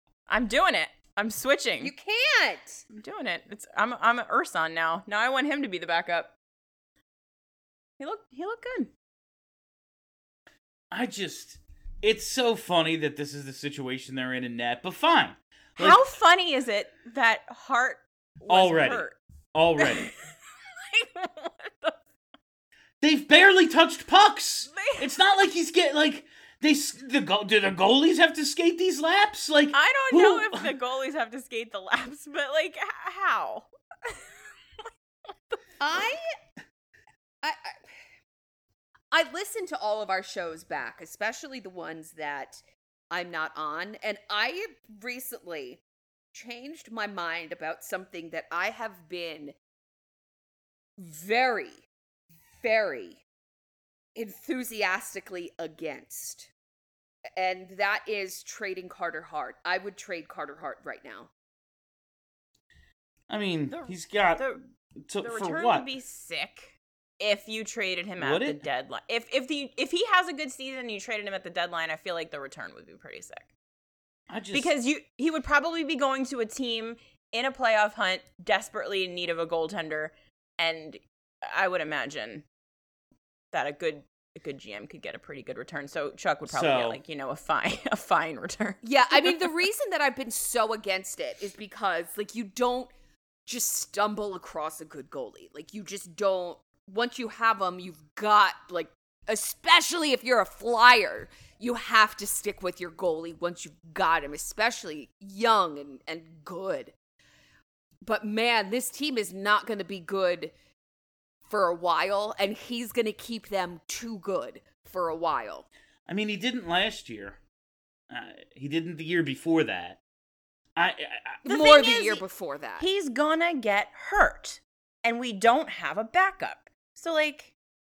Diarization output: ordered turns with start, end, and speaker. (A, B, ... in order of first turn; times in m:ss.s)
0:00.3-0:01.9 A
0:01.8-0:02.8 B
0:02.9-0:06.3 A
0:08.0-0:08.9 A
0:10.9-0:16.0 C
0:15.8-0:19.2 A
0:18.5-0:20.1 C
0:19.8-0:22.0 A
0:23.0-0:30.7 C
0:24.7-0:25.1 A
0:29.7-0:34.3 A
0:35.5-0:36.1 A
0:35.8-0:36.2 B
0:37.4-0:37.9 B
0:39.1-0:45.8 B
0:46.3-0:49.5 B
0:51.0-0:51.8 B
0:52.6-0:53.2 B
0:54.1-0:56.5 B
0:57.4-1:01.3 B
1:03.3-1:04.4 C
1:03.7-1:04.6 A
1:05.1-1:05.8 C
1:05.2-1:13.5 A
1:08.2-1:08.6 C
1:14.3-1:14.7 C
1:14.5-1:22.4 A
1:23.5-1:29.5 A
1:26.5-1:27.0 C
1:28.8-1:32.9 B
1:33.4-1:46.9 B
1:48.0-1:50.5 B
1:51.5-1:55.6 B
1:56.1-1:57.4 C
1:58.1-2:00.0 C
2:00.8-2:01.4 C
2:01.4-2:02.8 B
2:01.4-2:02.2 A
2:02.8-2:07.5 A